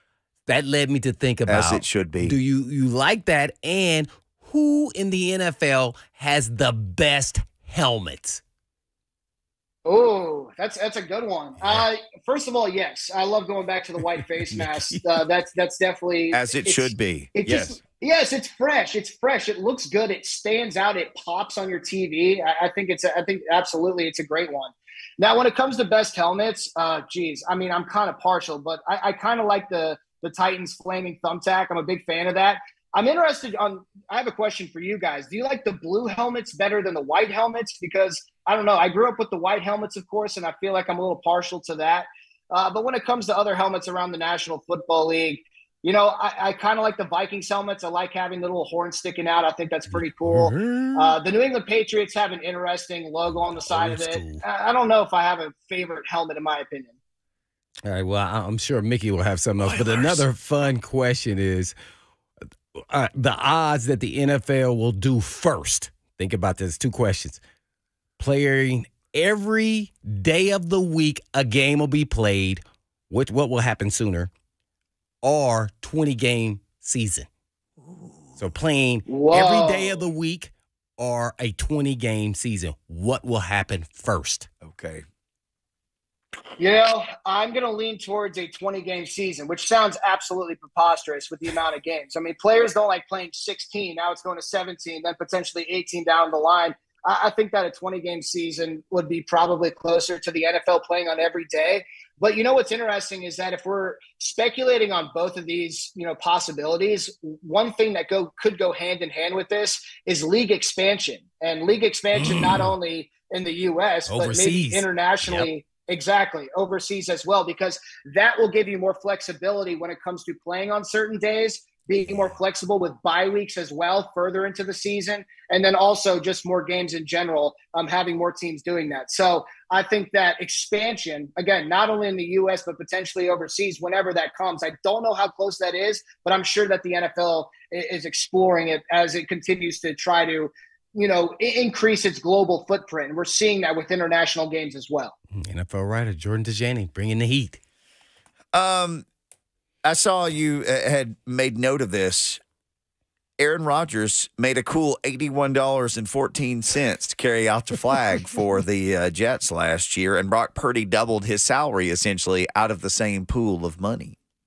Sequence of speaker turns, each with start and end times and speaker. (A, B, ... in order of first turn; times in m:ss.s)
0:00.5-0:08.4 A
0:01.4-0:02.4 B
0:09.8-0:56.9 C
0:11.6-0:11.9 A
0:14.1-0:15.2 A
0:16.3-0:17.8 B
0:49.9-0:51.2 A
0:53.5-0:54.4 A
0:57.8-1:01.7 A
0:59.6-1:00.2 B
1:02.9-1:07.4 A
1:08.2-1:14.3 A
1:15.2-1:17.3 A
1:17.8-1:18.1 B
1:18.4-1:24.5 A
1:19.1-1:20.0 C
1:24.6-1:25.0 B
1:26.6-2:25.1 C
1:52.1-1:52.7 A
1:54.1-1:55.5 A
2:25.3-2:27.6 A
2:28.5-2:29.0 B
2:29.8-2:32.4 B
2:33.4-2:44.2 B